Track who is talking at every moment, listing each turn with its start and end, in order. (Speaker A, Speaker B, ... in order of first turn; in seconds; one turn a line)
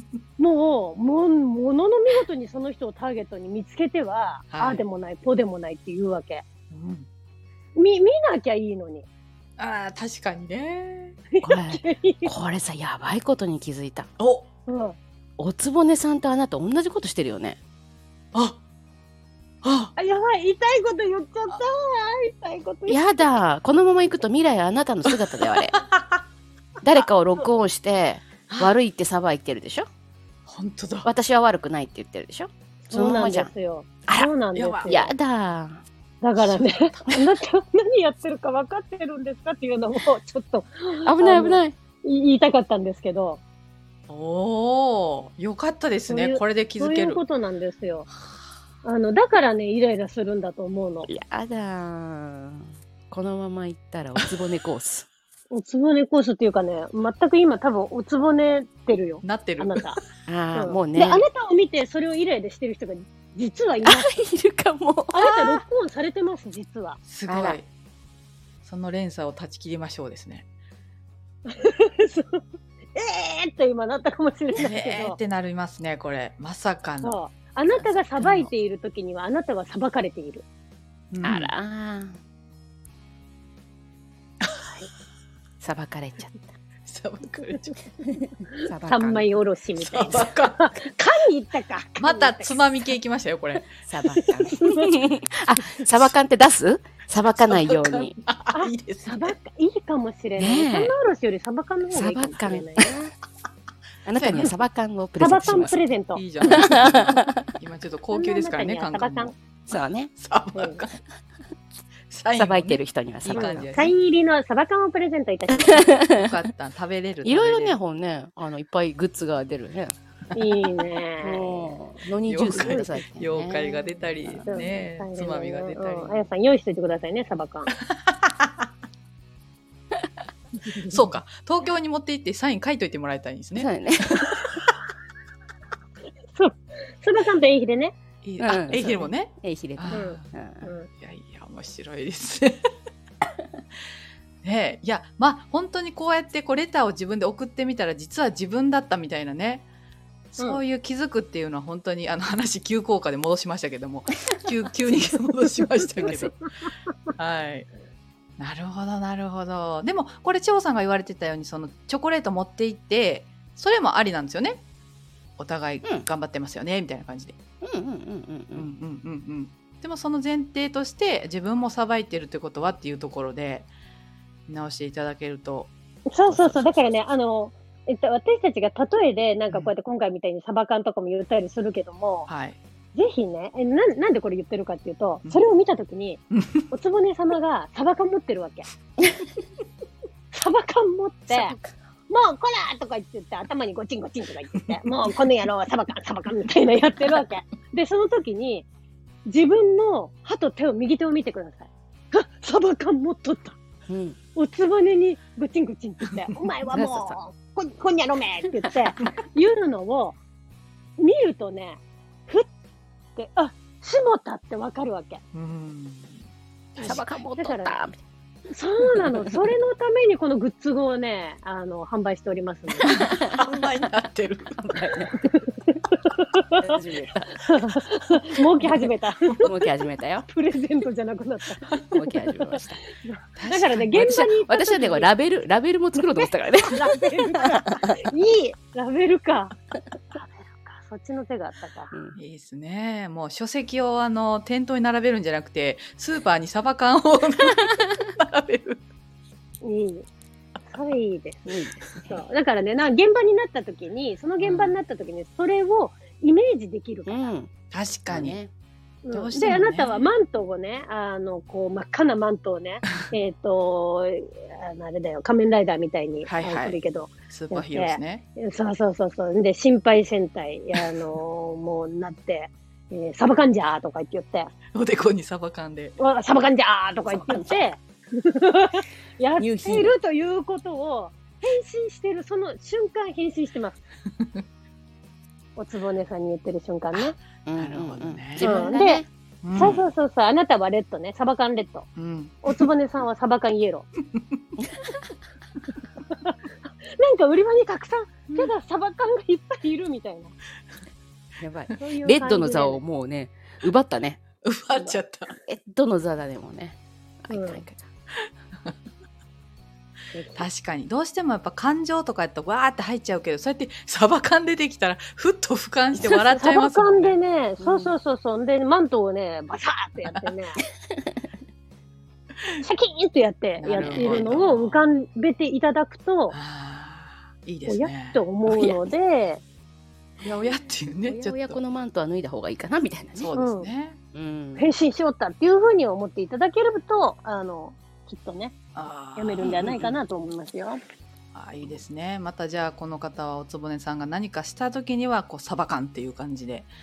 Speaker A: 0.4-6.4
Speaker B: 4.5-4.8
Speaker B: 6.7-7.1
Speaker A: 7.8-9.1
Speaker B: 9.6-11.2
Speaker A: 11.3-12.3
Speaker C: 11.4-14.1
Speaker B: 14.2-14.5
Speaker A: 14.7-15.0
Speaker C: 15.4-17.6
Speaker B: 19.6-19.9
Speaker A: 20.0-23.3
Speaker C: 22.9-25.8
Speaker B: 25.7-26.2
Speaker C: 26.8-29.9
Speaker B: 28.5-28.8
Speaker B: 30.5-31.1
Speaker C: 31.1-33.5
Speaker A: 32.9-35.1
Speaker B: 34.5-34.9
Speaker C: 34.9-35.8
Speaker A: 36.2-43.4
Speaker B: 36.4-37.2
Speaker C: 41.1-41.7
Speaker B: 44.1-47.2
Speaker A: 46.1-48.1
Speaker A: 48.8-51.1
Speaker C: 51.1-55.1
Speaker A: 55.5-60.0
Speaker B: 59.2-59.8
Speaker C: 60.3-61.2
Speaker A: 60.5-64.1
Speaker C: 63.8-65.2
Speaker A: 65.1-67.0
Speaker B: 65.2-65.6
Speaker B: 67.1-67.7
Speaker C: 67.3-67.6
Speaker B: 68.7-70.4
Speaker A: 71.5-72.4
Speaker A: 72.9-75.2
Speaker B: 74.6-78.5
Speaker A: 77.0-80.4
Speaker B: 81.1-81.5
Speaker C: 81.2-82.2
Speaker C: 85.6-86.5
Speaker B: 86.8-87.9
Speaker C: 88.7-89.3
Speaker A: 88.8-92.7
Speaker B: 89.8-90.6
Speaker B: 92.0-93.7
Speaker C: 93.8-98.2
Speaker A: 94.1-94.9
Speaker B: 97.3-99.3
Speaker A: 98.5-103.1
Speaker C: 100.3-100.9
Speaker C: 101.9-102.9
Speaker C: 104.1-105.8
Speaker B: 104.2-104.6
Speaker A: 105.2-106.2
Speaker B: 106.1-109.3
Speaker C: 106.5-107.3
Speaker A: 108.1-109.3
Speaker C: 109.7-110.1
Speaker B: 110.2-111.0
Speaker A: 110.5-110.8
Speaker B: 112.1-113.9
Speaker C: 112.3-113.7
Speaker A: 113.3-115.9
Speaker B: 116.1-117.8
Speaker C: 117.2-120.7
Speaker A: 120.3-121.8
Speaker C: 121.2-124.7
Speaker B: 122.3-126.2
Speaker A: 122.4-123.0
Speaker A: 124.5-127.7
Speaker B: 127.9-128.5
Speaker A: 130.7-131.0
Speaker B: 130.9-134.6
Speaker C: 133.6-134.3
Speaker A: 136.3-137.9
Speaker B: 138.2-140.3
Speaker C: 138.4-140.7
Speaker A: 139.9-140.9
Speaker B: 140.9-142.6
Speaker B: 144.4-149.7
Speaker B: 150.3-156.3
Speaker C: 156.0-156.3
Speaker B: 157.2-157.7
Speaker B: 158.4-164.6
Speaker B: 165.4-167.3
Speaker C: 167.6-168.7
Speaker B: 168.5-173.7
Speaker B: 174.5-175.7
Speaker A: 176.1-182.3
Speaker C: 176.3-176.6
Speaker B: 182.3-182.6
Speaker A: 182.9-188.7
Speaker B: 186.3-186.7
Speaker A: 190.3-191.6
Speaker C: 191.3-191.7
Speaker A: 192.1-198.7
Speaker A: 199.2-203.6
Speaker C: 203.9-204.2
Speaker A: 204.3-210.2
Speaker C: 206.7-207.2
Speaker C: 208.6-208.9
Speaker A: 211.0-212.5
Speaker A: 213.2-215.2
Speaker B: 215.3-216.2
Speaker B: 216.7-217.0
Speaker A: 216.8-217.8
Speaker C: 216.8-218.0
Speaker A: 218.5-223.0
Speaker C: 219.1-219.3
Speaker C: 222.8-223.8
Speaker B: 223.4-224.8
Speaker C: 224.7-225.1
Speaker A: 225.2-226.8
Speaker C: 226.6-227.3
Speaker A: 227.4-229.6
Speaker C: 229.4-230.3
Speaker A: 230.2-235.1
Speaker C: 231.9-232.8
Speaker B: 233.4-233.9
Speaker C: 233.8-237.8
Speaker A: 235.9-239.6
Speaker A: 240.1-241.9
Speaker C: 241.9-242.2
Speaker B: 242.2-248.8
Speaker A: 249.6-250.1
Speaker A: 250.7-257.3
Speaker C: 251.5-252.2
Speaker B: 254.4-254.8
Speaker C: 257.1-257.5
Speaker B: 257.7-258.4
Speaker C: 258.1-258.5
Speaker A: 259.1-274.5
Speaker B: 259.1-260.1
Speaker B: 266.2-268.2
Speaker B: 274.7-275.9
Speaker A: 276.0-283.8
Speaker C: 277.1-277.7
Speaker C: 279.4-279.9
Speaker A: 285.6-287.2
Speaker C: 287.4-289.1
Speaker B: 287.6-288.6
Speaker A: 288.4-291.9
Speaker B: 289.4-289.9
Speaker B: 292.0-292.7
Speaker A: 292.4-293.9
Speaker A: 296.1-296.3
Speaker A: 297.0-300.3
Speaker C: 301.4-304.2
Speaker A: 301.8-302.8
Speaker B: 304.4-305.3
Speaker C: 305.4-307.9
Speaker A: 307.3-307.6
Speaker A: 310.1-310.4
Speaker B: 310.4-317.2
Speaker A: 316.3-320.6
Speaker C: 317.6-317.9
Speaker B: 320.0-320.3
Speaker A: 322.6-326.4
Speaker B: 323.6-324.8
Speaker C: 323.8-324.3
Speaker B: 326.3-328.2
Speaker A: 327.7-329.4
Speaker B: 330.2-331.6
Speaker C: 331.1-333.3
Speaker B: 333.2-334.0
Speaker A: 333.4-333.7
Speaker C: 334.1-334.7
Speaker A: 334.6-338.6
Speaker B: 338.7-339.9
Speaker A: 339.2-340.8
Speaker B: 341.3-346.7